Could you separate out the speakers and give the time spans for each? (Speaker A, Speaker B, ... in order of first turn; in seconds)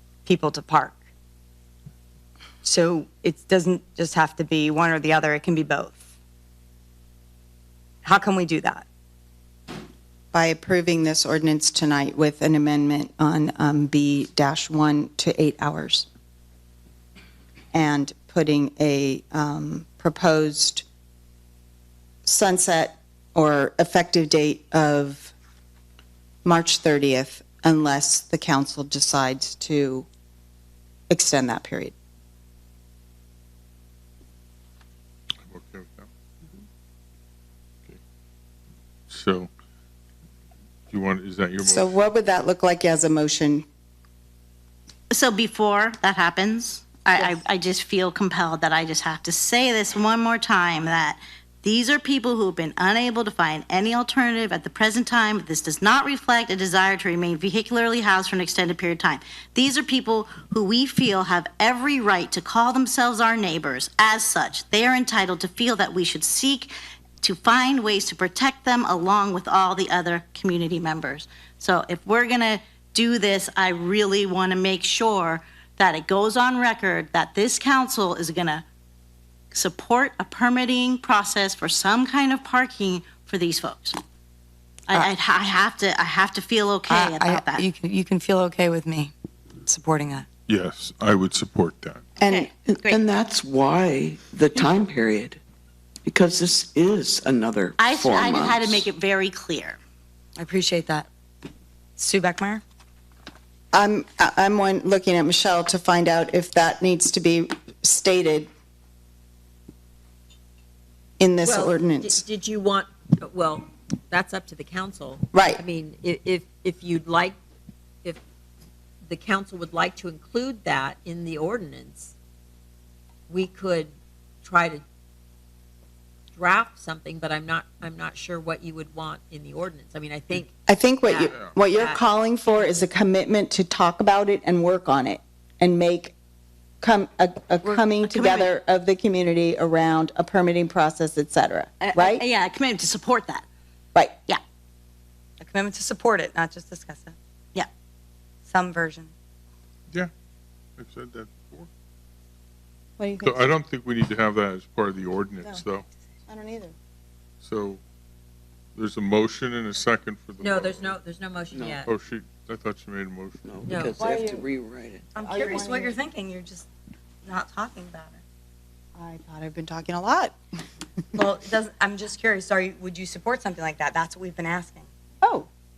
Speaker A: 0.3-1.0, 2.6-6.0, 8.0-8.8, 86.9-89.1, 89.7-90.2, 100.4-101.1, 102.0-102.6, 145.4-147.2, 148.5-149.1, 165.2-166.7, 167.2-168.2, 171.2-174.9
Speaker B: 10.3-16.1, 17.7-20.9, 22.2-25.3, 26.4-30.1, 31.1-31.9, 41.6-43.6, 103.7-108.5, 111.2-112.2, 115.3-115.6, 130.7-136.2, 136.8-142.2, 153.0-153.4, 156.3-156.7, 163.9-164.5, 165.2-166.0, 169.0-170.4, 175.2-175.5
Speaker C: 35.5-36.1, 39.1-39.5, 40.9-42.0, 90.5-92.1, 150.8-151.7, 153.2-155.8, 157.4-157.8, 158.8-161.0, 161.8-163.8
Speaker D: 45.1-78.6, 79.5-84.0, 84.9-87.6, 92.2-93.0, 97.8-99.8, 137.6-138.5, 141.8-143.4
Speaker E: 92.7-95.4, 96.0-98.9, 161.5-161.8, 163.4-165.1
Speaker F: 111.4-117.3, 119.0-122.1, 123.3-123.9, 124.4-124.8, 126.3-132.0, 160.4-161.9, 163.7-164.0